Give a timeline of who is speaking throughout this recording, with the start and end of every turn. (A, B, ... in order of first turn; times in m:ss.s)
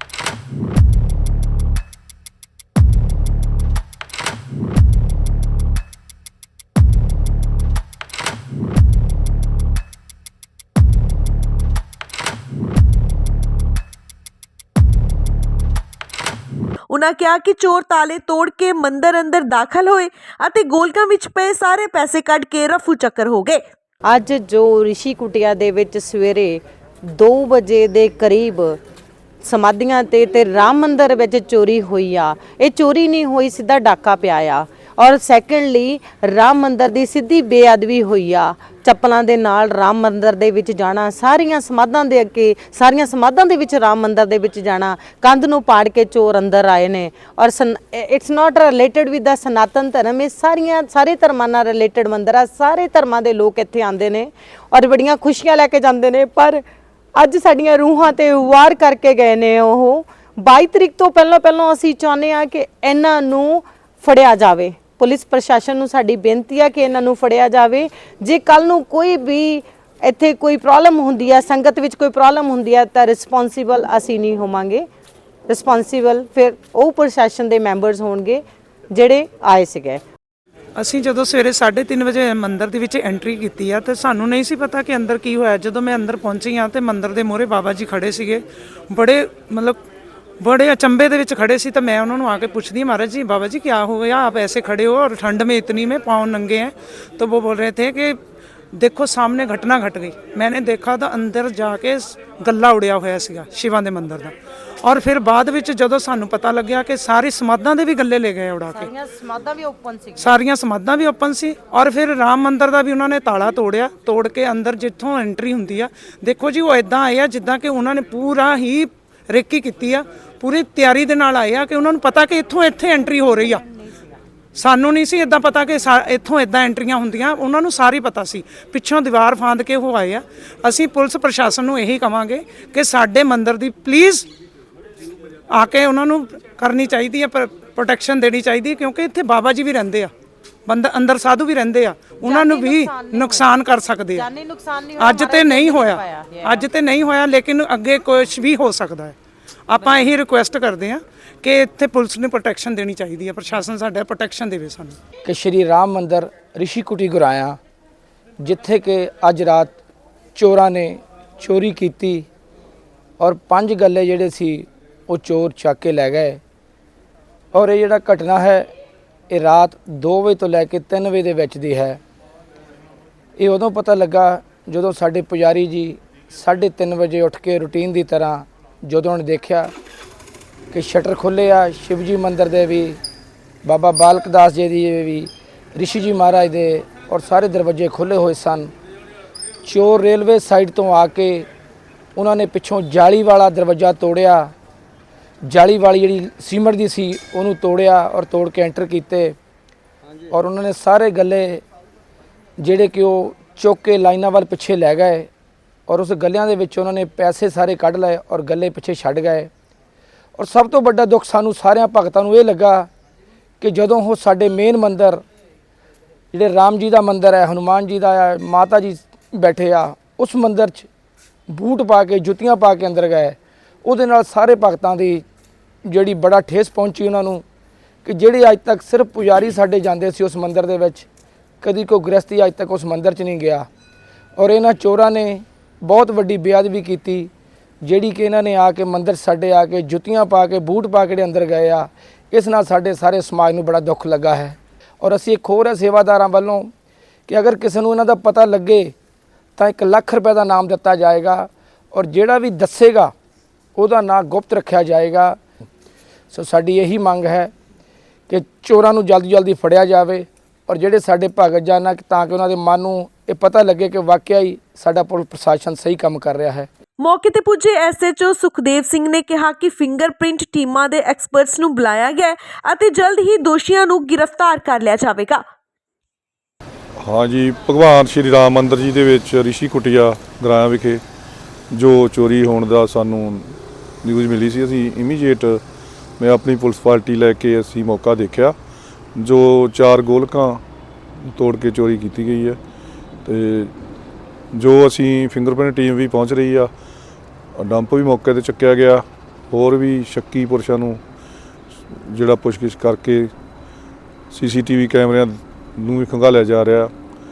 0:16.9-0:23.6 A
0:24.0-0:28.8 B
0:29.4-0:56.6 B
0:57.2-1:14.8 B
1:15.5-1:20.0 B
1:20.8-1:29.8 C
1:30.4-1:38.2 C
1:38.7-1:48.9 C
1:48.7-1:50.4 B
1:50.2-2:03.6 C
2:03.3-2:04.1 B
2:04.6-2:14.3 C
2:15.5-2:20.1 C
2:20.6-2:24.3 C
2:22.2-2:23.5 B
2:24.1-2:26.6 B
2:25.0-2:29.1 C
2:29.7-2:35.0 C
2:35.2-2:37.6 D
2:38.4-2:39.8 D
2:40.3-2:42.3 D
2:43.2-2:46.4 D
2:47.5-2:48.7 D
2:49.3-2:52.0 D
2:53.4-2:59.7 D
3:00.7-3:03.0 D
3:03.6-3:08.7 D
3:09.6-3:11.5 D
3:12.2-3:14.5 D
3:15.4-3:19.4 D
3:20.3-3:21.6 D
3:22.6-3:25.3 D
3:25.9-3:29.5 D
3:30.4-3:32.9 D
3:33.6-3:35.2 D
3:36.3-3:40.9 D
3:41.5-3:45.2 D
3:45.8-3:47.4 D
3:48.0-3:51.1 D
3:51.6-3:53.7 D
3:54.4-3:57.3 D
3:57.8-4:06.7 D
4:07.3-4:08.9 D
4:09.6-4:13.1 D
4:13.8-4:15.4 D
4:16.3-4:17.5 D
4:18.3-4:26.7 D
4:27.0-4:35.4 A
4:37.0-4:41.0 E
4:41.7-4:45.6 E
4:46.2-4:48.6 E
4:49.1-4:50.6 E
4:51.2-4:52.6 E
4:53.2-4:53.7 E
4:54.5-4:56.7 E
4:57.6-5:01.0 E
5:01.9-5:03.3 E
5:04.3-5:06.9 E